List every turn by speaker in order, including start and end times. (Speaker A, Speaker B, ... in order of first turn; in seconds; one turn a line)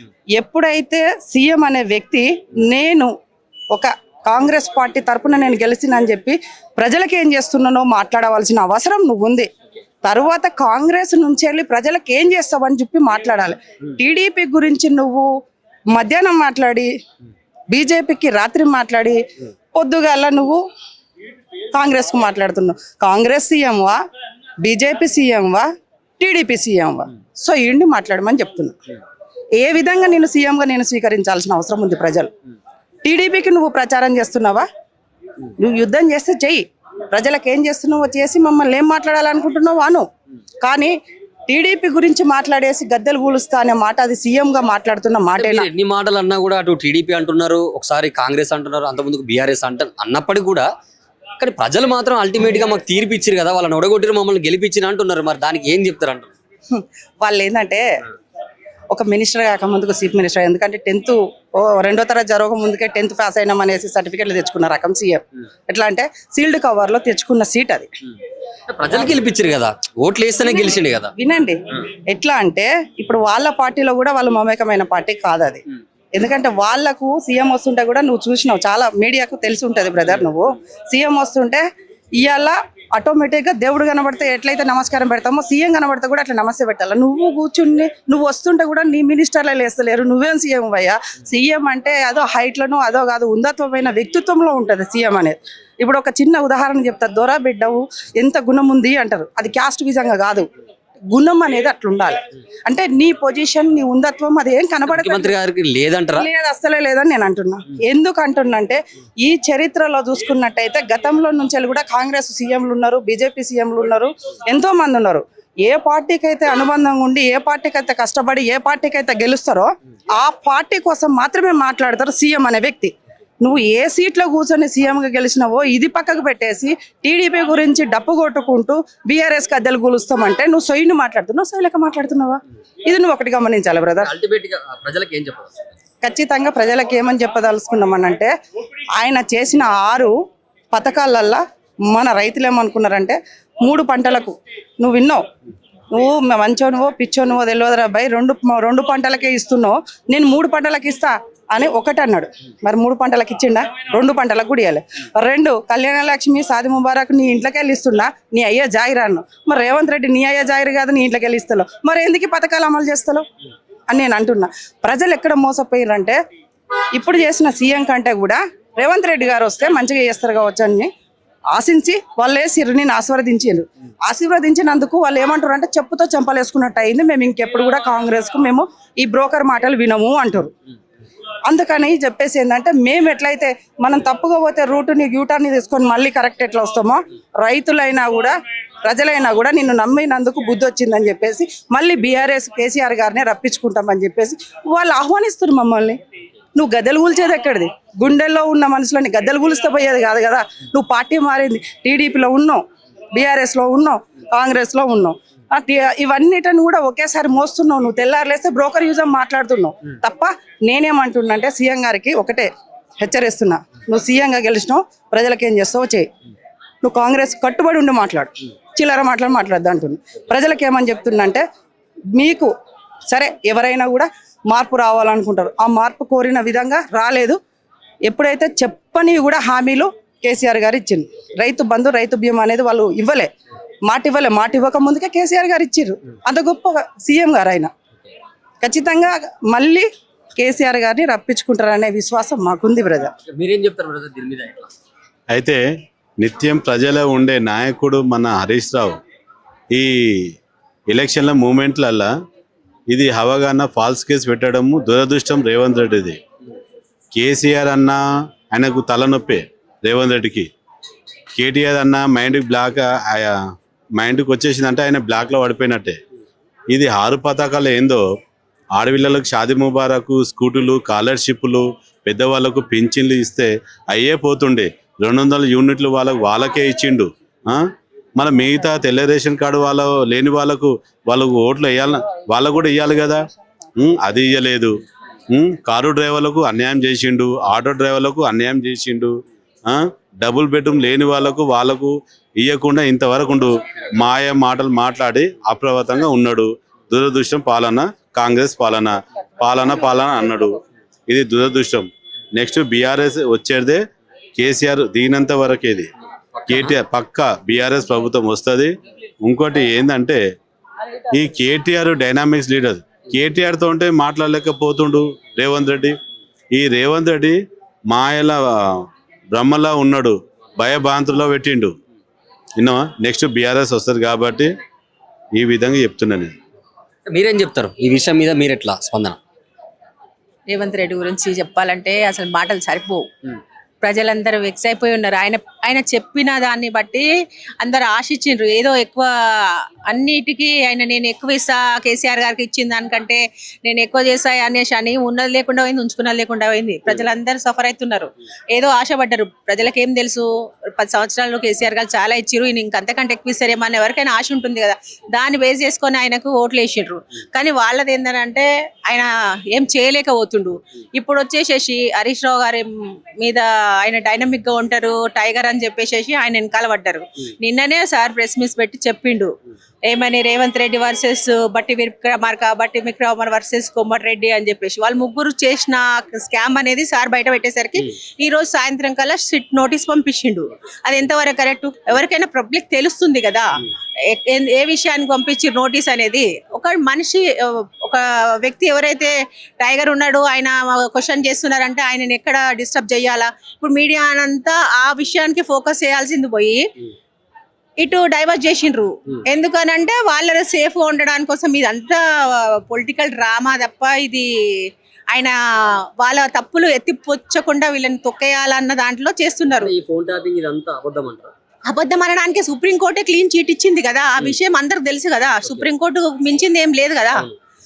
Speaker A: 0.4-3.1
Speaker A: 3.7-9.5
Speaker A: 10.0-15.3
Speaker A: 15.9-16.9
Speaker A: 17.7-19.2
Speaker A: 19.7-20.6
Speaker A: 21.7-24.0
Speaker A: 24.6-25.7
Speaker A: 26.2-28.7
Speaker A: 29.6-32.3
Speaker A: 33.0-34.6
Speaker A: 35.6-40.0
Speaker A: 40.6-40.9
Speaker A: 41.5-45.7
Speaker B: 45.4-50.7
Speaker B: 51.4-56.3
Speaker A: 56.7-57.8
Speaker A: 58.9-67.9
Speaker B: 68.7-71.1
Speaker A: 71.2-75.6
Speaker A: 76.1-81.6
Speaker A: 82.2-100.5
Speaker A: 101.1-105.3
Speaker B: 104.9-106.2
Speaker A: 106.2-134.1
Speaker B: 134.0-135.6
Speaker A: 136.0-138.3
Speaker A: 139.0-140.1
Speaker A: 140.7-145.2
Speaker A: 145.9-163.2
Speaker A: 163.9-166.2
Speaker A: 166.9-170.9
Speaker A: 171.5-180.5
Speaker A: 181.5-196.0
Speaker A: 196.6-202.6
Speaker A: 203.1-216.1
Speaker A: 216.8-221.4
Speaker A: 222.1-222.5
Speaker A: 223.1-227.4
Speaker A: 228.0-233.3
Speaker A: 233.9-237.7
Speaker A: 238.6-243.1
Speaker B: 243.3-244.7
Speaker C: 245.3-245.6
Speaker C: 246.2-249.0
Speaker C: 249.7-250.3
Speaker C: 250.9-252.1
Speaker C: 252.9-256.2
Speaker C: 257.1-260.5
Speaker C: 261.4-263.4
Speaker C: 264.0-266.0
Speaker C: 266.7-268.0
Speaker C: 268.8-277.6
Speaker C: 278.1-283.2
Speaker C: 283.8-284.8
Speaker C: 285.3-289.1
Speaker C: 289.7-303.8
Speaker C: 304.4-305.9
Speaker C: 306.5-310.2
Speaker C: 311.1-316.0
Speaker C: 316.5-321.7
Speaker C: 322.6-324.5
Speaker C: 325.3-326.3
Speaker B: 327.1-329.2
Speaker D: 330.5-333.1
Speaker D: 333.8-337.1
Speaker D: 337.6-362.7
Speaker D: 363.2-369.3
Speaker D: 369.9-396.6
Speaker D: 397.8-405.3
Speaker D: 406.0-409.7
Speaker B: 409.6-411.3
Speaker D: 411.7-417.3